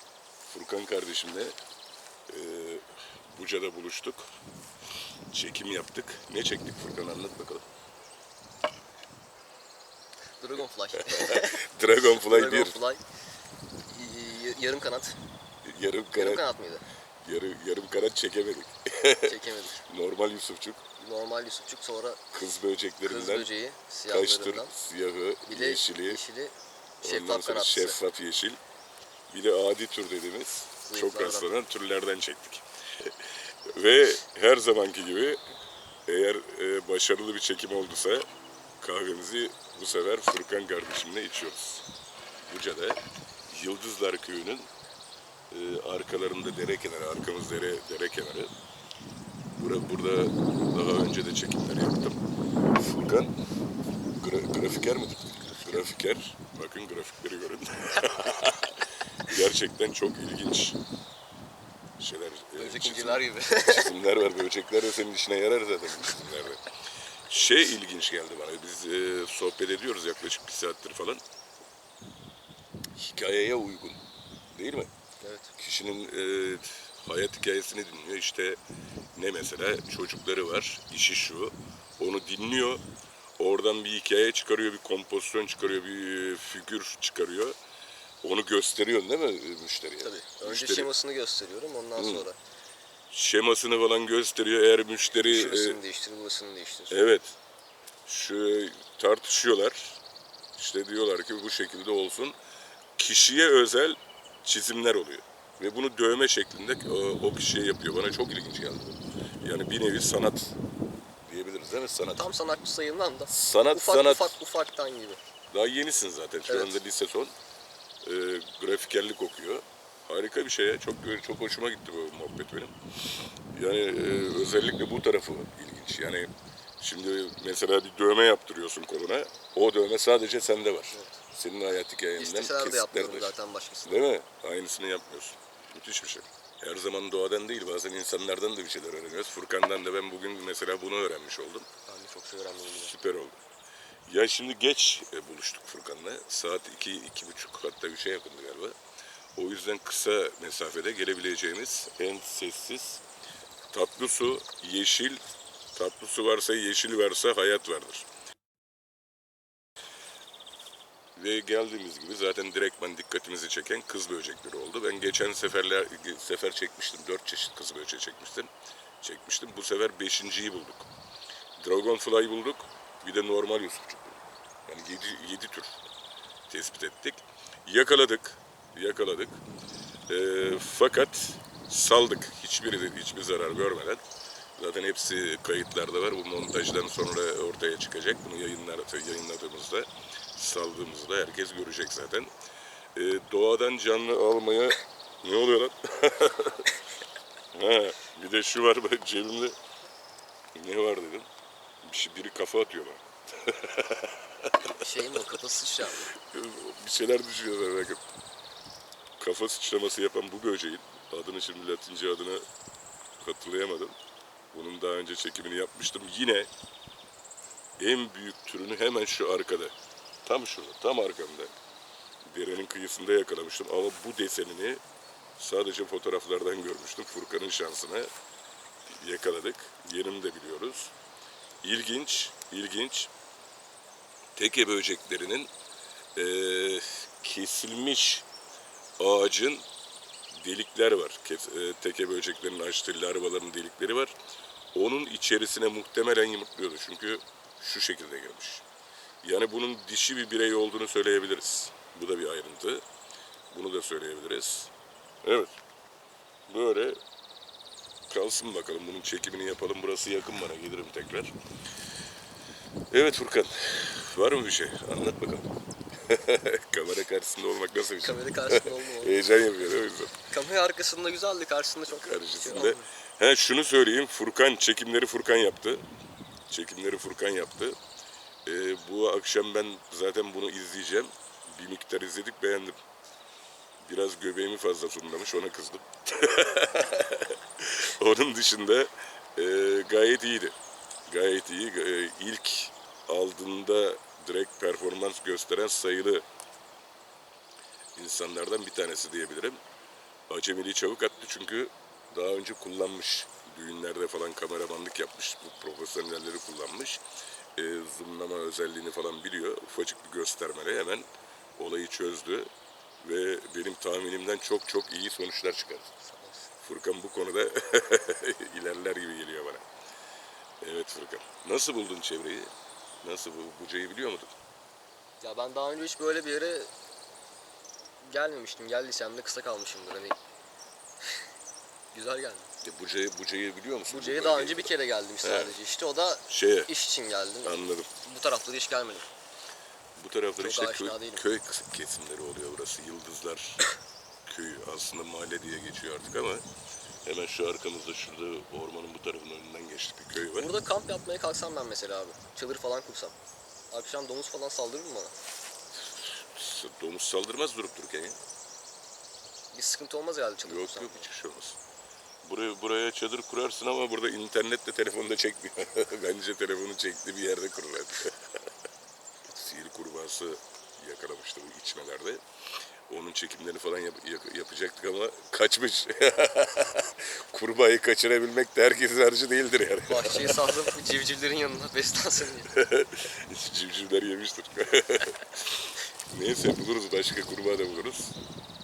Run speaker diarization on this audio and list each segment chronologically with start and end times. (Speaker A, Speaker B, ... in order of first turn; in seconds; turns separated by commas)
Speaker A: 0.5-1.6, Speaker A: 2.3-4.3, Speaker A: 5.3-7.7, Speaker B: 10.4-13.0, Speaker A: 11.0-12.8, Speaker B: 13.9-15.2, Speaker A: 15.6-16.4, Speaker B: 16.2-16.9, Speaker A: 17.2-20.8, Speaker B: 19.2-19.8, Speaker B: 21.0-22.2, Speaker A: 22.3-23.5, Speaker B: 23.0-24.7, Speaker A: 24.1-26.2, Speaker B: 25.5-28.0, Speaker A: 27.0-28.6, Speaker A: 29.3-33.1, Speaker B: 30.9-31.5, Speaker A: 33.7-35.4, Speaker A: 36.1-38.3, Speaker A: 38.8-41.9, Speaker A: 42.4-44.7, Speaker A: 45.5-48.5, Speaker A: 49.5-52.2, Speaker A: 52.8-53.4, Speaker A: 54.2-60.8, Speaker A: 62.0-66.6, Speaker B: 62.5-64.0, Speaker A: 67.3-71.2, Speaker A: 73.0-74.9, Speaker B: 75.2-75.5, Speaker A: 75.6-78.6, Speaker A: 79.2-82.8, Speaker A: 83.4-87.6, Speaker A: 88.2-90.9, Speaker B: 90.0-92.4, Speaker A: 92.0-92.3, Speaker A: 93.1-95.8, Speaker B: 95.2-97.0, Speaker A: 96.9-97.4, Speaker A: 98.0-100.0, Speaker A: 100.5-102.4, Speaker A: 103.0-110.6, Speaker A: 111.2-112.3, Speaker B: 112.1-115.2, Speaker A: 113.3-114.3, Speaker A: 115.5-117.3, Speaker B: 116.5-116.8, Speaker A: 118.0-122.8, Speaker A: 123.5-141.7, Speaker B: 130.9-131.2, Speaker B: 132.2-134.1, Speaker B: 141.9-142.9, Speaker A: 142.8-143.4, Speaker A: 144.1-148.8, Speaker A: 149.4-153.0, Speaker A: 153.7-155.2, Speaker A: 155.7-158.1, Speaker A: 161.2-170.9, Speaker A: 171.6-175.9, Speaker A: 176.5-179.4, Speaker A: 180.1-184.0, Speaker A: 184.6-192.3, Speaker A: 192.9-196.8, Speaker A: 197.5-199.6, Speaker A: 200.6-201.3, Speaker A: 201.8-205.0, Speaker B: 204.7-206.1, Speaker A: 206.1-208.0, Speaker A: 209.2-212.5, Speaker A: 213.2-214.0, Speaker A: 214.5-216.5, Speaker A: 217.8-221.5, Speaker A: 222.2-224.8, Speaker A: 225.4-228.1, Speaker A: 228.9-230.9, Speaker A: 231.6-233.1, Speaker A: 234.3-235.5, Speaker A: 236.2-238.3, Speaker A: 239.0-239.7, Speaker A: 240.3-244.2, Speaker A: 244.7-248.7, Speaker A: 249.2-252.8, Speaker A: 253.5-254.7, Speaker A: 255.2-255.6, Speaker A: 256.5-257.0, Speaker A: 258.1-261.4, Speaker A: 262.9-270.2, Speaker B: 267.9-269.4, Speaker B: 270.3-272.9, Speaker A: 271.9-275.9, Speaker A: 276.5-277.8, Speaker A: 278.4-282.8, Speaker A: 283.9-290.6, Speaker A: 291.1-296.2, Speaker A: 298.0-299.6, Speaker A: 300.3-307.0, Speaker A: 307.6-312.5, Speaker A: 313.0-316.0, Speaker B: 316.1-316.5, Speaker A: 316.6-319.6, Speaker A: 320.6-324.4, Speaker B: 325.2-326.7, Speaker B: 328.0-330.2, Speaker B: 331.9-332.5, Speaker A: 332.6-335.6, Speaker B: 333.9-339.1, Speaker A: 336.3-336.7, Speaker A: 337.4-337.9, Speaker A: 339.9-343.7, Speaker B: 340.4-341.2, Speaker A: 344.2-346.5, Speaker A: 347.0-350.5, Speaker B: 350.4-353.2, Speaker B: 353.7-355.1, Speaker A: 355.8-358.2, Speaker B: 359.5-361.1, Speaker A: 360.4-361.6, Speaker A: 362.2-368.4, Speaker A: 369.3-372.2, Speaker A: 372.9-380.7, Speaker B: 379.9-382.6, Speaker A: 382.5-388.2